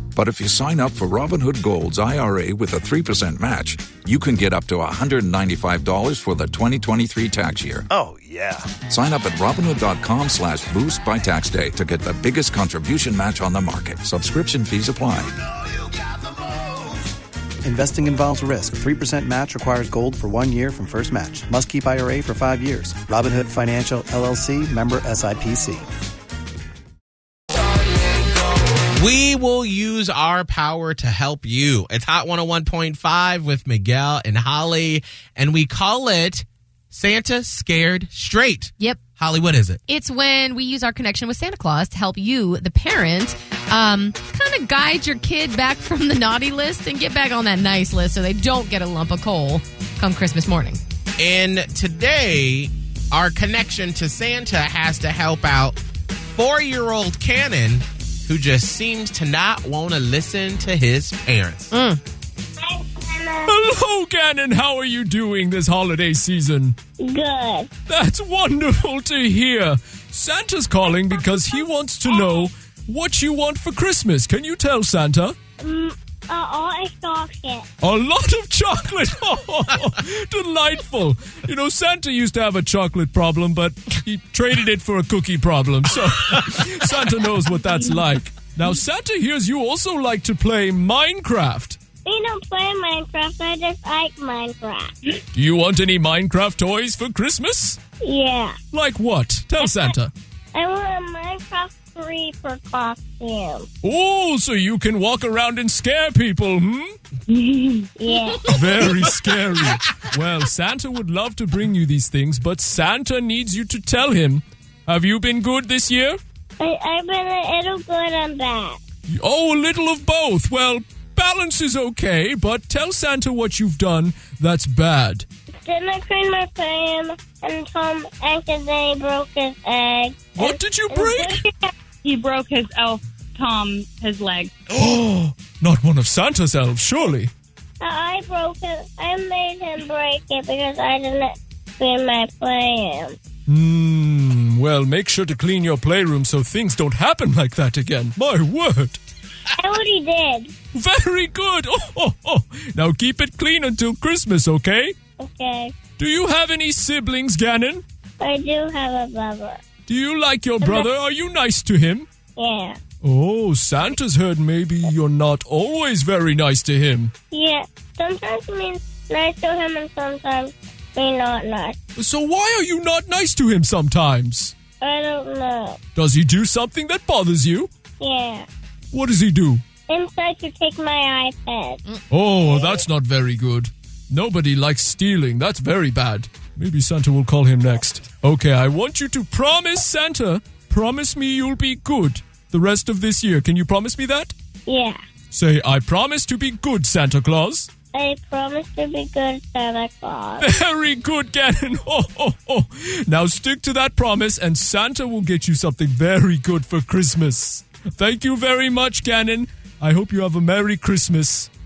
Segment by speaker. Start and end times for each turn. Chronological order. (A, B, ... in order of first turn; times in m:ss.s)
0:00.2-0:07.9 A
0:07.9-0:08.6 B
0:08.9-0:15.3 A
0:17.6-0:25.9 B
0:29.0-0:39.8 C
0:38.8-0:39.1 D
0:39.9-0:50.8 D
0:51.2-0:55.8 C
0:56.3-1:01.7 C
1:01.7-1:02.0 D
1:02.6-1:03.6 E
1:03.5-1:06.8 F
1:07.0-1:07.7 E
1:07.9-1:15.4 F
1:15.6-1:17.7 E
1:17.8-1:31.8 F
1:32.0-1:35.1 E
1:35.3-1:37.8 F
1:38.0-1:38.6 E
1:38.7-1:40.1 F
1:40.5-1:43.7 E
1:43.8-1:47.0 F
1:47.3-1:47.9 G
1:48.0-1:48.4 E
1:48.4-1:56.2 F
1:56.6-1:58.8 E
1:59.1-2:05.3 F
2:05.6-2:11.7 E
2:10.4-2:11.4 F
2:12.0-2:14.7 G
2:14.7-2:17.3 F
2:17.8-2:23.2 E
2:23.5-2:29.0 F
2:29.6-2:30.5 E
2:30.7-2:35.0 F
2:35.2-2:35.7 E
2:36.0-2:37.8 F
2:38.2-2:39.6 E
2:39.9-2:42.1 F
2:40.6-2:40.9 E
2:42.4-2:42.8 E
2:43.0-2:47.1 F
2:47.3-2:51.8 E
2:52.0-2:54.5 F
2:54.8-2:55.8 E
2:56.0-2:57.7 F
2:58.0-2:58.5 E
2:58.9-2:59.6 F
2:59.9-3:01.8 E
3:02.1-3:14.3 F
3:14.7-3:15.0 E
3:15.3-3:17.7 F
3:17.9-3:20.5 E
3:20.4-3:31.5 F